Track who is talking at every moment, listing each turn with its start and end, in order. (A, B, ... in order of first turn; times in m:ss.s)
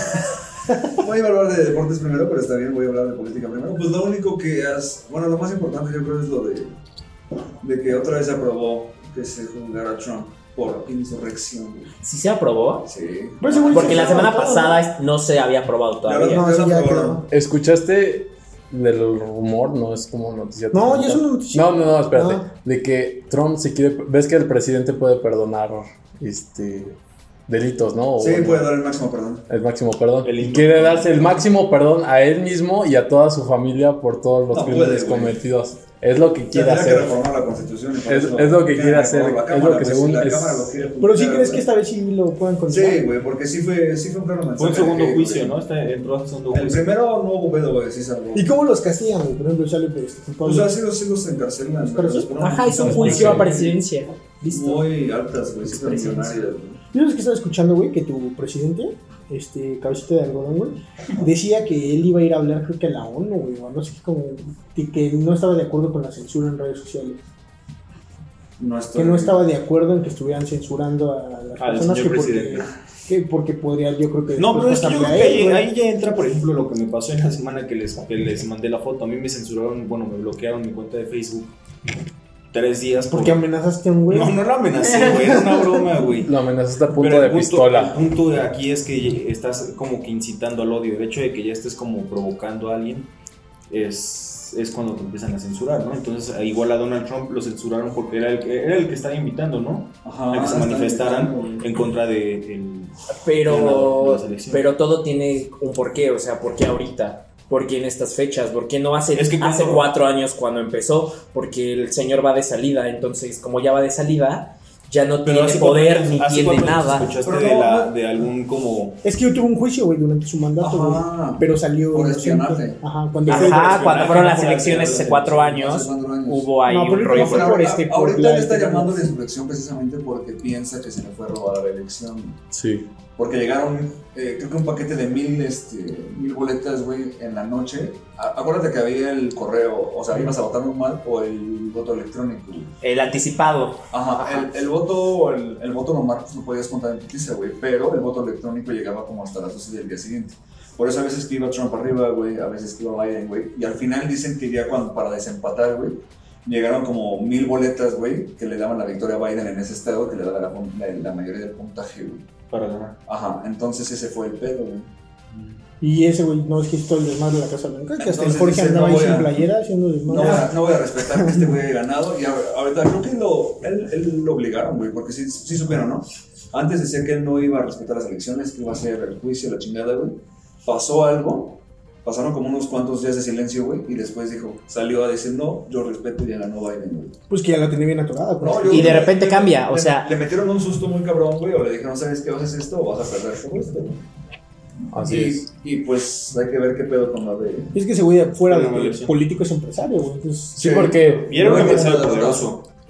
0:00.9-0:06.7 A
0:07.6-0:11.9 A
0:12.0-0:12.9 B
0:12.8-0:14.4 A
0:13.4-0:14.8 C
0:13.7-0:16.5 B
0:16.0-0:17.2 A
0:16.3-0:17.3 C
0:17.3-0:28.7 D
0:20.7-0:22.4 C
0:28.2-0:29.4 A
0:29.5-0:37.2 D
0:30.2-0:31.4 E
0:34.5-0:35.4 A
0:36.5-0:41.6 A
0:38.0-0:40.7 D
0:41.0-0:43.0 C
0:42.7-0:45.6 A
0:44.6-0:47.0 E
0:46.5-0:48.5 A
0:48.3-0:50.8 C
0:50.4-0:53.8 A
0:51.8-0:52.3 C
0:52.3-0:53.6 E
0:52.4-0:54.9 B
0:52.8-0:53.5 D
0:54.5-0:56.8 A
0:55.7-0:56.4 B
0:56.9-1:07.2 C
1:08.6-1:09.4 A
1:08.9-1:15.7 C
1:11.6-1:12.7 E
1:14.4-1:21.6 E
1:22.5-1:23.4 E
1:23.1-1:25.8 C
1:24.1-1:26.3 E
1:26.2-1:28.0 D
1:26.9-1:33.1 E
1:33.7-1:44.7 E
1:40.0-1:41.6 A
1:43.1-1:57.1 B
1:49.1-1:49.9 E
1:55.2-1:59.0 E
1:57.2-1:57.9 A
1:59.0-2:04.1 C
2:00.6-2:02.8 A
2:03.2-2:05.7 E
2:03.3-2:07.6 B
2:05.5-2:06.5 A
2:06.7-2:09.1 C
2:07.0-2:12.4 A
2:12.5-2:12.9 D
2:13.2-2:22.7 A
2:22.8-2:24.4 B
2:23.9-2:42.3 A
2:42.5-2:43.0 E
2:43.0-2:44.9 A
2:45.8-2:51.6 C
2:48.0-2:49.4 A
2:50.1-3:07.2 A
3:07.3-3:09.1 C
3:08.4-3:14.0 A
3:08.7-3:10.1 B
3:14.9-3:15.4 D
3:15.0-3:17.7 A
3:17.7-3:20.9 C
3:18.5-3:19.1 E
3:20.6-3:22.0 D
3:20.6-3:22.5 A
3:21.1-3:22.6 E